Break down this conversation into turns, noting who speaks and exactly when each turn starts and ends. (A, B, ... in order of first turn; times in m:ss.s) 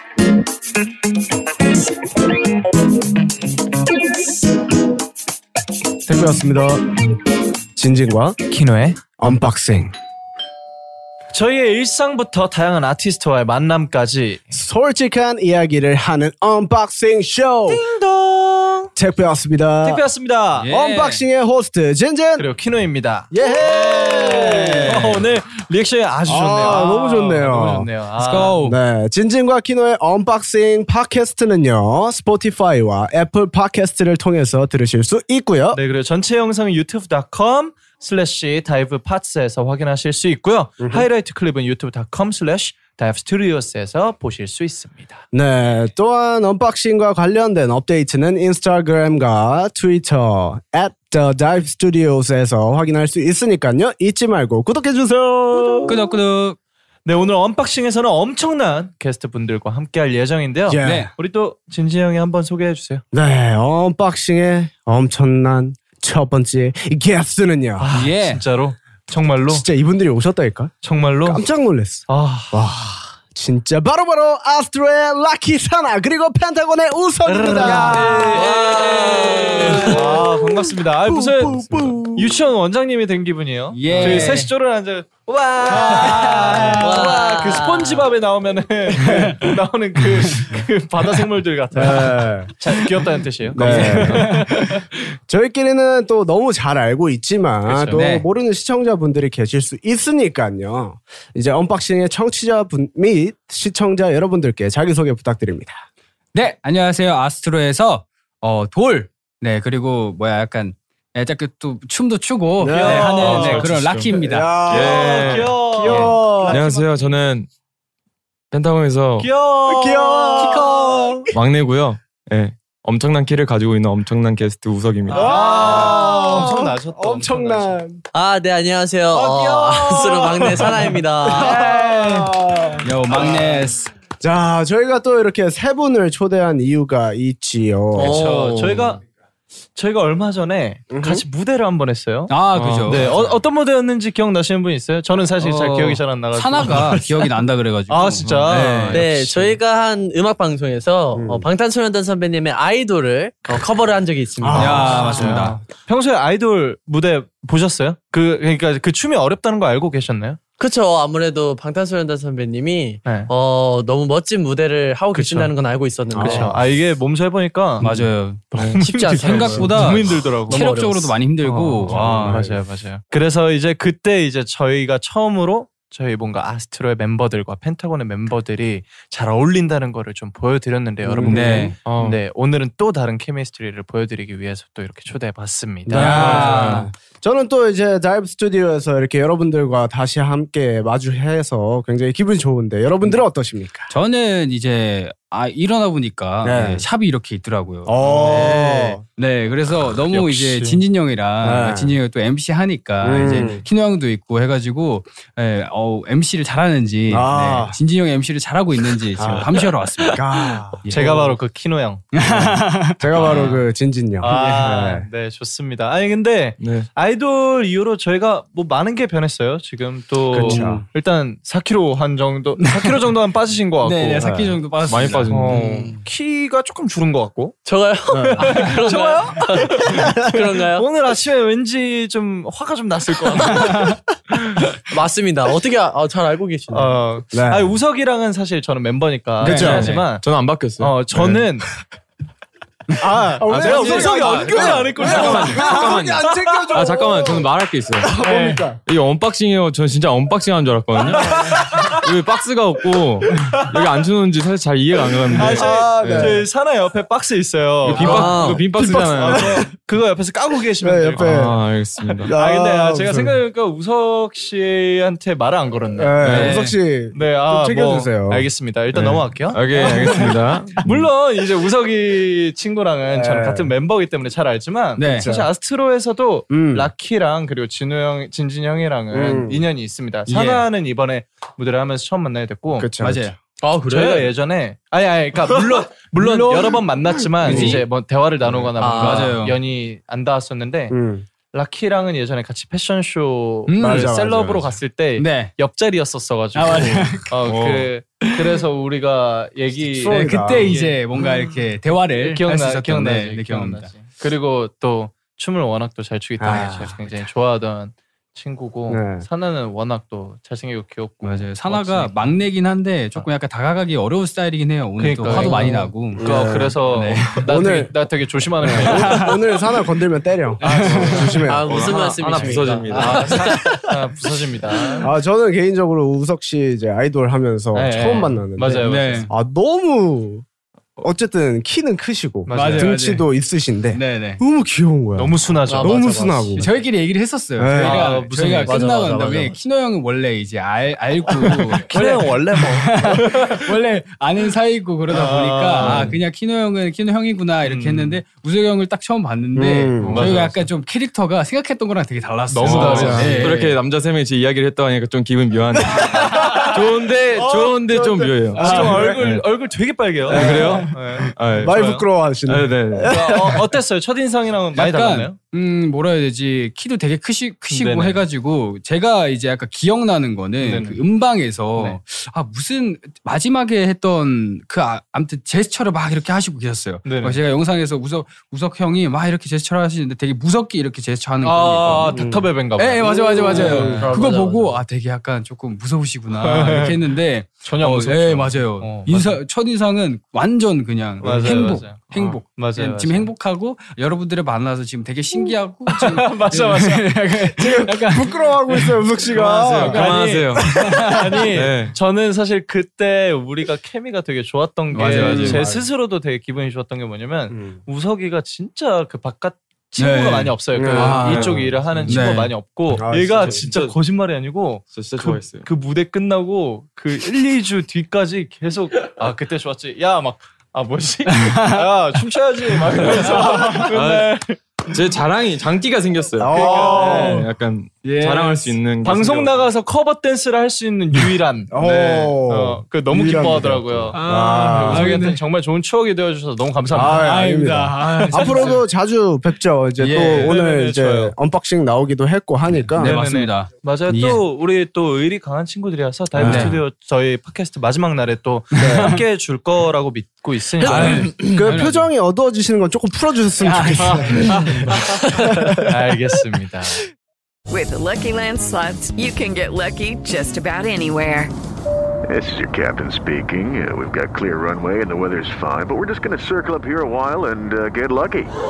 0:06.0-0:06.9 A
0:07.8-0:08.4 A
0:08.5-0:09.0 B
0:09.2-0:09.9 A
0:11.3-0:14.5 B
0:14.5-0:17.8 A
0:17.7-0:18.9 B
0:19.0-0:20.0 A
0:19.8-0:20.7 B
0:20.6-0:21.2 C
0:20.7-0:22.4 A
0:22.4-0:28.6 B
0:23.3-0:25.2 A
0:24.1-0:25.3 C
0:26.3-0:27.9 A
0:28.1-0:28.8 C
0:28.6-0:35.8 A
0:35.7-0:45.2 B
0:40.8-0:41.1 A
0:45.3-0:56.0 A
0:55.9-0:56.6 C
0:57.0-1:03.0 B
1:00.7-1:01.1 A
1:00.8-1:01.1 C
1:03.1-1:07.9 A
1:07.8-1:09.6 B
1:07.9-1:08.4 C
1:09.5-1:22.4 A
1:10.8-1:11.4 B
1:12.1-1:12.6 B
1:17.2-1:34.8 B
1:17.5-1:19.9 C
1:18.0-1:20.1 D
1:23.7-1:24.5 C
1:23.9-1:24.3 A
1:25.7-1:27.1 C
1:26.8-1:28.0 D
1:29.0-1:29.4 C
1:31.7-1:32.5 A
1:33.5-1:34.4 A
1:33.6-1:34.7 C
1:35.3-1:45.8 A
1:37.7-1:38.0 B
1:37.9-1:38.2 C
1:46.3-1:54.7 C
1:52.6-1:56.6 A
1:52.7-1:54.0 B
1:53.2-1:55.8 E
1:54.7-1:57.1 B
1:55.8-1:56.2 C
1:56.5-1:57.5 E
1:58.5-1:59.3 E
1:59.2-2:00.7 B
1:59.6-2:01.3 A
2:00.4-2:00.8 C
2:01.3-2:05.7 E
2:05.1-2:07.8 B
2:05.1-2:08.0 A
2:08.1-2:11.7 D
2:09.1-2:12.3 B
2:09.6-2:10.3 A
2:11.2-2:13.6 A
2:11.8-2:12.3 C
2:12.8-2:13.9 C
2:14.2-2:18.2 A
2:17.9-2:19.0 D
2:18.0-2:19.0 B
2:19.8-2:27.2 B
2:20.9-2:21.2 A
2:22.3-2:23.1 C
2:22.5-2:23.4 E
2:25.4-2:29.1 C
2:27.9-2:29.5 B
2:28.2-2:29.0 E
2:28.9-2:35.2 D
2:31.1-2:31.5 A
2:34.4-2:35.5 A
2:34.5-2:35.6 C
2:34.6-2:40.4 B
2:40.6-2:46.6 D
2:43.0-2:43.3 B
2:45.1-2:45.5 B
2:46.1-2:46.6 A
2:46.2-2:47.9 B
2:47.8-2:48.5 C
2:48.5-2:50.6 B
2:48.5-2:48.8 E
2:48.8-2:51.2 D
2:49.2-2:52.4 C
2:51.4-3:06.8 B
2:51.9-2:52.6 A
3:01.0-3:01.7 A
3:01.2-3:01.8 C
3:01.8-3:02.2 E
3:05.9-3:13.9 A
3:05.9-3:06.9 C
3:06.1-3:06.8 E
3:13.9-3:30.2 C
3:16.4-3:16.8 A
3:17.8-3:19.0 A
3:18.2-3:18.6 B
3:20.1-3:20.8 B
3:21.4-3:21.9 A
3:23.0-3:23.6 A
3:27.1-3:27.8 A
3:29.2-3:29.6 A
3:30.1-3:31.1 A
3:30.8-3:31.3 C
3:30.9-3:32.1 B
3:32.1-3:33.6 C
3:32.3-3:35.1 A
3:33.2-3:33.6 B
3:34.2-3:44.3 B
3:36.6-3:36.9 E
3:40.3-3:40.8 A
3:40.4-3:40.8 C
3:42.6-3:43.0 C
3:43.8-3:45.6 C
3:44.2-3:44.6 A
3:44.8-3:45.9 E
3:45.3-3:47.6 B
3:47.6-3:50.8 D
3:48.1-3:48.4 A
3:48.3-3:53.9 B
3:53.6-3:53.9 C
3:54.9-3:57.0 D
3:56.7-4:01.7 B
3:57.3-3:57.7 A
3:59.4-3:59.9 A
3:59.4-4:00.1 C
4:00.2-4:01.4 E
4:03.0-4:06.8 B
4:03.4-4:07.5 A
4:03.5-4:08.2 E
4:04.1-4:05.1 C
4:08.0-4:08.8 A
4:08.2-4:08.6 B
4:08.8-4:11.4 E
4:11.1-4:11.8 A
4:11.2-4:12.0 B
4:12.0-4:16.4 E
4:13.3-4:13.6 B
4:15.4-4:21.5 B
4:15.4-4:16.4 A
4:17.8-4:19.6 E
4:17.9-4:19.7 A
4:18.0-4:18.6 D
4:20.8-4:21.6 A
4:21.2-4:22.3 E
4:22.2-4:23.4 A
4:22.3-4:42.9 B
4:26.0-4:28.5 A
4:26.2-4:26.8 C
4:28.9-4:31.1 E
4:33.1-4:33.7 A
4:35.0-4:35.3 C
4:35.1-4:35.5 A
4:36.5-4:36.9 A
4:39.1-4:39.6 A
4:40.3-4:40.7 C
4:42.7-4:43.3 A
4:43.0-4:43.4 C
4:43.6-4:44.3 D
4:43.8-4:50.9 B
4:46.2-4:46.7 C
4:47.4-4:47.8 A
4:47.4-4:47.8 C
4:48.8-4:49.4 D
4:48.9-4:49.6 C
4:50.9-4:51.3 A
4:51.5-5:01.6 B
4:53.7-4:54.1 C
4:53.8-4:54.7 A
4:55.2-4:55.5 C
4:56.5-4:57.3 C
4:57.4-4:57.9 E
4:58.2-4:58.6 C
4:59.9-5:00.8 A
5:00.0-5:03.9 C
5:02.1-5:12.4 B
5:06.4-5:07.1 A
5:08.9-5:09.2 A
5:11.2-5:17.7 C
5:15.0-5:19.3 B
5:15.2-5:15.8 D
5:15.6-5:16.8 A
5:17.4-5:17.9 A
5:18.6-5:21.9 A
5:18.7-5:19.4 C
5:20.6-5:21.6 B
5:20.6-5:21.3 C
5:21.4-5:23.9 D
5:21.6-5:23.5 E
5:22.4-5:22.8 A
5:22.9-5:25.1 B
5:25.0-5:30.4 A
5:27.7-5:29.3 B
5:28.8-5:29.3 C
5:31.0-5:36.7 A
5:32.5-5:33.1 B
5:32.5-5:33.2 C
5:33.9-5:34.4 C
5:35.2-5:36.6 B
5:35.7-5:36.6 D
5:36.6-5:53.8 C
5:37.6-5:38.8 A
5:37.7-5:38.9 B
5:38.7-5:39.6 D
5:41.4-5:43.7 B
5:45.1-5:46.2 B
5:45.8-5:46.1 A
5:47.6-5:48.2 B
5:49.5-5:50.3 A
5:50.0-5:50.4 E
5:50.0-5:50.6 B
5:52.5-5:53.5 B
5:52.6-5:59.4 E
5:52.7-5:53.5 A
5:56.0-6:02.0 B
5:58.6-5:59.1 C
5:58.6-5:59.3 A
6:00.3-6:01.9 E
6:00.3-6:00.9 A
6:01.6-6:03.6 A
6:02.4-6:03.5 E
6:03.0-6:05.4 B
6:04.7-6:39.0 C
6:07.7-6:08.2 B
6:10.6-6:11.0 B
6:17.0-6:17.4 B
6:21.4-6:24.1 B
6:22.1-6:24.1 A
6:23.5-6:24.8 D
6:26.4-6:27.0 B
6:27.6-6:29.4 B
6:31.2-6:33.3 B
6:31.2-6:31.6 A
6:36.0-6:37.1 B
6:37.6-6:40.0 A
6:39.3-6:40.9 E
6:39.8-7:04.6 B
6:39.8-6:41.5 C
6:41.5-6:42.0 E
6:44.9-6:45.7 C
6:45.0-6:45.9 A
6:47.5-6:47.8 A
6:50.0-6:52.6 C
6:50.7-6:51.3 A
6:51.2-6:52.4 E
6:52.9-6:53.6 A
6:53.0-6:54.0 E
6:54.9-6:55.7 E
7:01.3-7:01.8 C
7:03.9-7:09.6 E
7:06.4-7:07.4 A
7:06.5-7:07.4 B
7:07.1-7:07.4 C
7:08.0-7:08.8 C
7:09.0-7:17.3 B
7:11.7-7:15.1 A
7:14.1-7:15.4 C
7:16.9-7:23.2 A
7:17.0-7:18.8 C
7:18.1-7:18.8 B
7:20.0-7:20.6 C
7:20.2-7:21.3 B
7:22.9-7:24.4 C
7:23.0-7:31.5 B
7:26.4-7:26.8 A
7:26.4-7:26.8 C
7:28.7-7:29.2 C
7:28.8-7:29.2 A
7:30.8-7:32.1 C
7:30.8-7:31.4 D
7:30.9-7:35.9 A
7:33.6-7:34.8 C
7:34.0-7:37.0 B
7:37.7-7:41.5 F
7:42.3-7:48.5 G